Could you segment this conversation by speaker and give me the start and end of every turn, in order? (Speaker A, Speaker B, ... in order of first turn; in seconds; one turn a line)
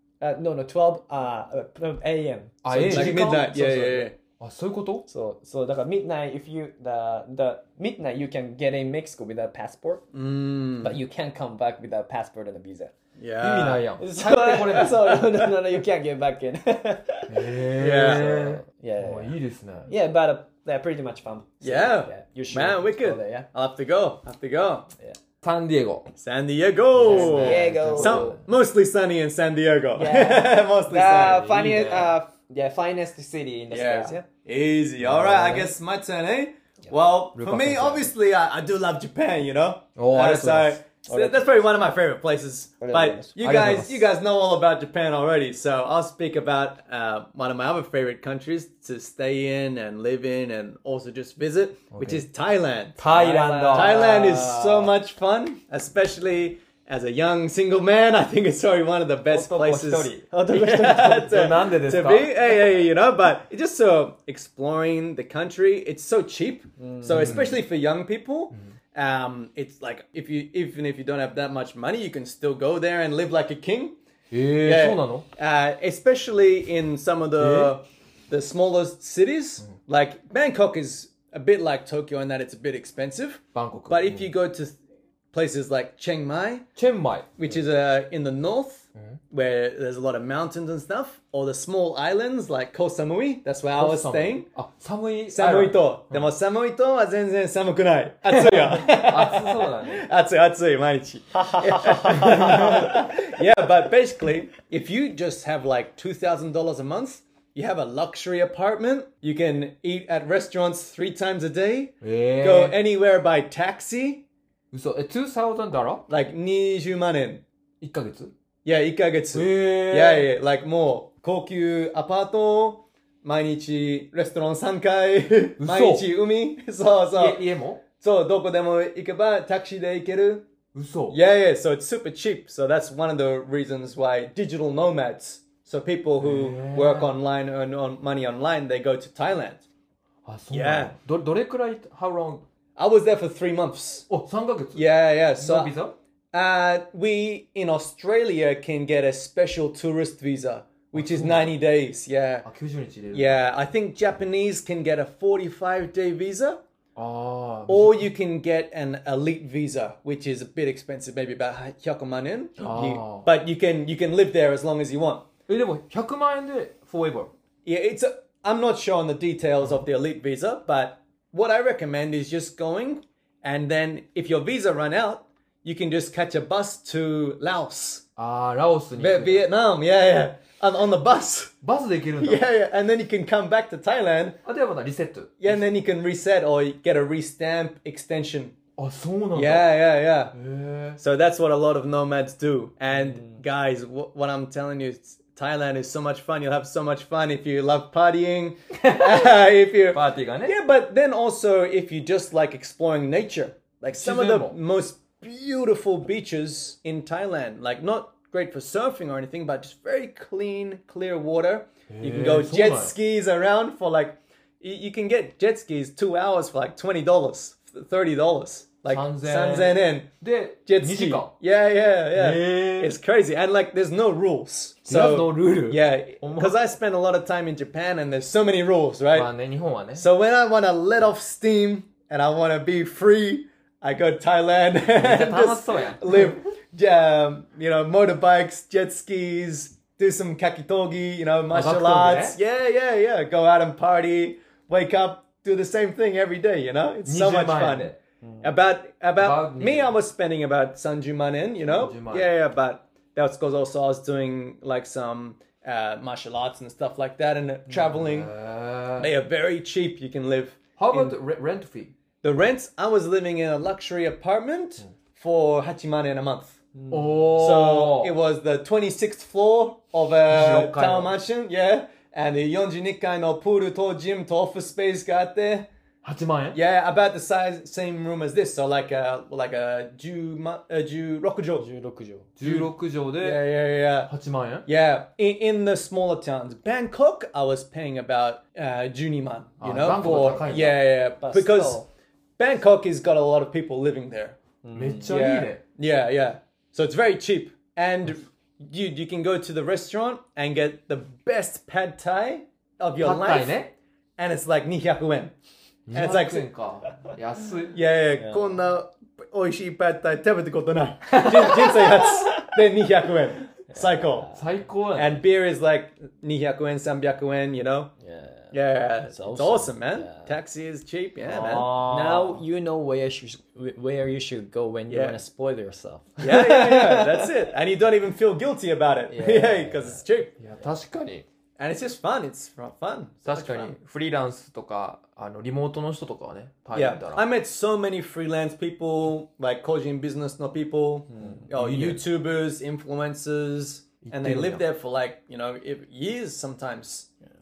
Speaker A: 0.2-3.3
Speaker B: 2.6-5.1
Speaker C: 2.7-4.2
Speaker A: 5.1-10.0
Speaker C: 10.1-11.0
Speaker A: 10.8-12.9
Speaker C: 13.2-13.9
Speaker B: 13.4-15.0
Speaker A: 14.0-23.5
Speaker C: 14.7-15.5
Speaker B: 17.3-19.9
Speaker C: 17.8-18.3
Speaker C: 21.6-24.9
Speaker B: 25.4-26.1
Speaker C: 26.2-31.5
Speaker B: 26.9-28.4
Speaker A: 27.0-28.4
Speaker A: 29.9-34.3
Speaker B: 31.1-32.1
Speaker C: 33.7-53.1
Speaker B: 35.0-35.7
Speaker B: 37.3-38.1
Speaker B: 40.0-40.8
Speaker A: 41.1-41.7
Speaker A: 42.8-43.4
Speaker B: 43.4-44.1
Speaker B: 52.0-52.2
Speaker B: 53.0-54.5
Speaker A: 53.1-54.9
Speaker C: 53.7-74.0
Speaker B: 59.3-60.3
Speaker A: 60.3-61.5
Speaker B: 61.0-62.3
Speaker A: 66.8-67.5
Speaker B: 67.1-67.5
Speaker B: 74.3-75.2
Speaker C: 74.6-84.8
Speaker B: 77.4-77.8
Speaker B: 83.5-84.3
Speaker C: 85.3-86.6
Speaker B: 86.8-87.4
Speaker C: 87.4-94.5
Speaker B: 93.7-96.3
Speaker C: 95.3-114.2
Speaker B: 98.3-100.0
Speaker A: 101.3-103.0
Speaker B: 112.0-112.8
Speaker B: 114.7-116.1
Speaker C: 116.1-117.4
Speaker B: 117.8-118.3
Speaker C: 118.7-130.5
Speaker B: 119.3-120.3
Speaker B: 125.6-126.1
Speaker B: 127.1-127.8
Speaker B: 130.7-131.2
Speaker C: 131.1-139.7
Speaker B: 136.2-137.2
Speaker B: 140.2-142.4
Speaker C: 140.5-140.9
Speaker C: 142.8-144.1
Speaker B: 144.1-146.0
Speaker C: 144.8-145.7
Speaker C: 146.3-152.5
Speaker B: 150.9-151.6
Speaker B: 152.4-153.4
Speaker C: 153.1-156.6
Speaker B: 157.0-158.1
Speaker C: 157.7-165.2
Speaker B: 162.6-163.3
Speaker B: 165.5-167.3
Speaker C: 167.7-178.0
Speaker B: 178.2-179.5
Speaker C: 179.0-181.6
Speaker B: 181.6-182.4
Speaker C: 182.2-184.4
Speaker B: 184.4-185.6
Speaker C: 185.4-188.6
Speaker B: 188.8-189.7
Speaker C: 189.3-190.3
Speaker B: 190.3-191.0
Speaker C: 191.0-220.1
Speaker B: 199.9-200.6
Speaker B: 203.9-204.6
Speaker B: 211.9-212.9
Speaker B: 218.9-221.3
Speaker C: 220.7-229.3
Speaker B: 222.1-222.9
Speaker B: 224.8-226.6
Speaker B: 229.1-230.1
Speaker C: 230.0-258.3
Speaker B: 235.0-236.3
Speaker B: 241.5-242.4
Speaker B: 247.1-248.0
Speaker A: 248.2-248.5
Speaker B: 249.2-250.0
Speaker B: 251.7-252.3
Speaker B: 257.9-259.1
Speaker C: 259.0-261.2
Speaker B: 260.8-261.9
Speaker C: 262.2-266.6
Speaker A: 266.8-267.2
Speaker B: 266.9-268.2
Speaker C: 267.4-275.7
Speaker B: 270.3-271.2
Speaker B: 276.0-276.6
Speaker C: 276.5-281.6
Speaker A: 281.6-282.3
Speaker B: 282.4-283.5
Speaker C: 282.4-284.1
Speaker B: 284.1-284.7
Speaker C: 284.6-291.8
Speaker B: 289.6-290.8
Speaker A: 290.1-290.6
Speaker A: 291.2-291.9
Speaker C: 292.4-294.4
Speaker A: 294.6-295.1
Speaker B: 294.7-295.6
Speaker C: 295.1-303.6
Speaker B: 303.0-303.7
Speaker C: 304.2-305.3
Speaker B: 305.9-307.8
Speaker C: 305.9-306.5
Speaker C: 307.7-314.3
Speaker A: 308.1-308.6
Speaker A: 313.7-314.5
Speaker B: 314.3-315.2
Speaker C: 314.9-317.9
Speaker A: 318.0-320.3
Speaker C: 318.5-321.8
Speaker B: 321.3-322.4
Speaker A: 321.3-327.3
Speaker C: 324.9-325.2
Speaker C: 326.2-330.4
Speaker A: 329.1-330.0
Speaker B: 330.4-331.3
Speaker C: 331.6-333.8
Speaker B: 333.2-337.3
Speaker C: 336.7-347.1
Speaker A: 341.1-341.5
Speaker B: 341.5-342.0
Speaker B: 344.0-344.6